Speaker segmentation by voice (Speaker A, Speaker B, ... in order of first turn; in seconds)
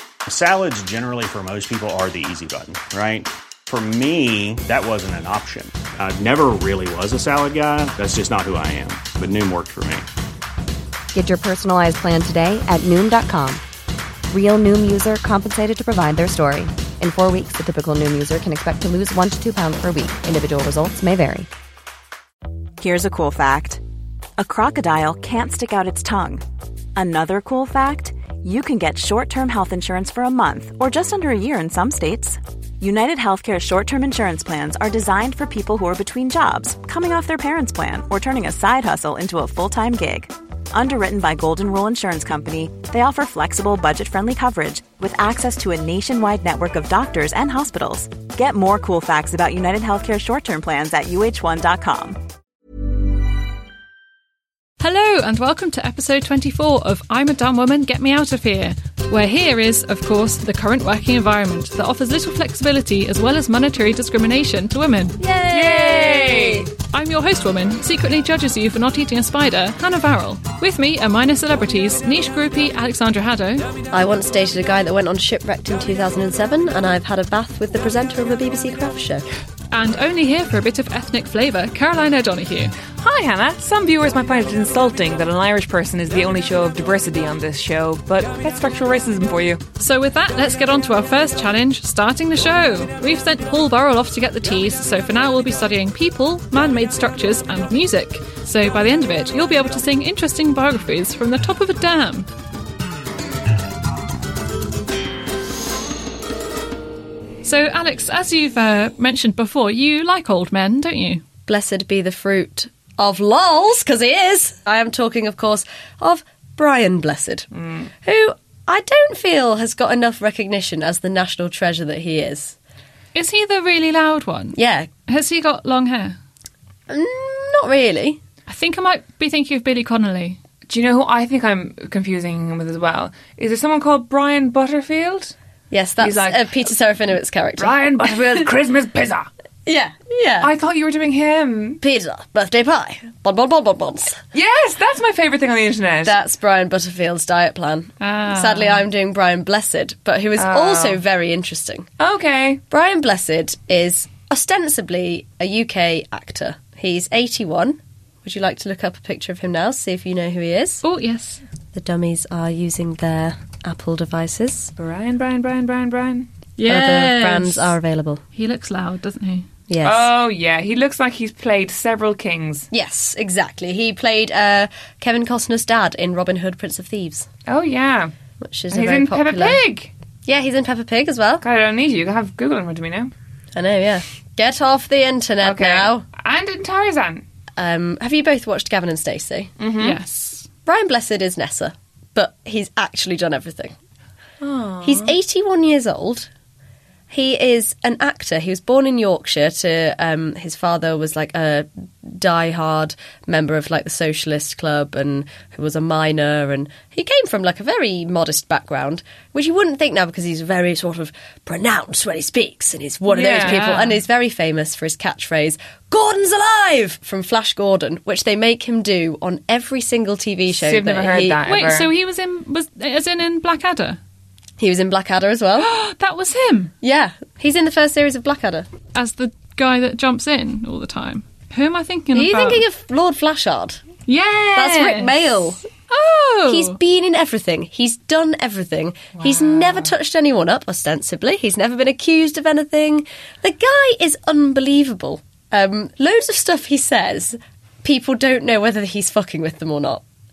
Speaker A: 0.3-10.1
Speaker B: 11.1-13.6, 14.3-21.5
Speaker C: 22.8-23.8, 24.4-26.4, 26.9-52.2
Speaker D: 54.8-65.2, 66.9-73.6, 79.7-82.7, 89.8-102.3, 107.4-111.2, 123.1-126.2, 128.5-130.4, 148.0-148.8, 160.8-161.4, 166.6-167.7, 168.3-169.5, 189.8-190.5, 213.3-214.0, 221.4-224.0, 225.6-226.7, 228.9-232.6, 234.1-235.1, 235.9-236.8
Speaker E: 65.2-66.7, 73.9-79.2, 111.5-117.5, 118.0-122.5, 124.5-124.9, 126.9-128.2, 135.7-137.8, 139.7-140.5, 141.8-144.2, 146.0-151.9, 152.7-160.8, 161.7-164.7, 166.6-168.2, 169.7-170.1, 172.7-177.3, 178.4-179.6, 180.2-181.4, 183.5-186.0, 187.6-189.5, 190.7-193.7, 194.8-196.3, 197.1-221.4, 224.6-225.7, 226.8-228.7, 232.1-233.8, 234.5-235.6, 236.5-250.0
Speaker F: 65.5-66.7, 83.0-89.6, 117.5-117.9, 130.7-135.3, 136.0-136.6, 137.6-139.3, 140.4-141.8, 144.3-146.2, 150.3-151.0, 152.0-152.6, 164.8-166.3, 169.8-172.7, 177.5-178.1, 178.7-179.9, 181.4-183.1, 185.4-187.2, 189.6-190.0, 194.4-195.1, 213.1-213.6, 220.5-221.9, 239.2-239.9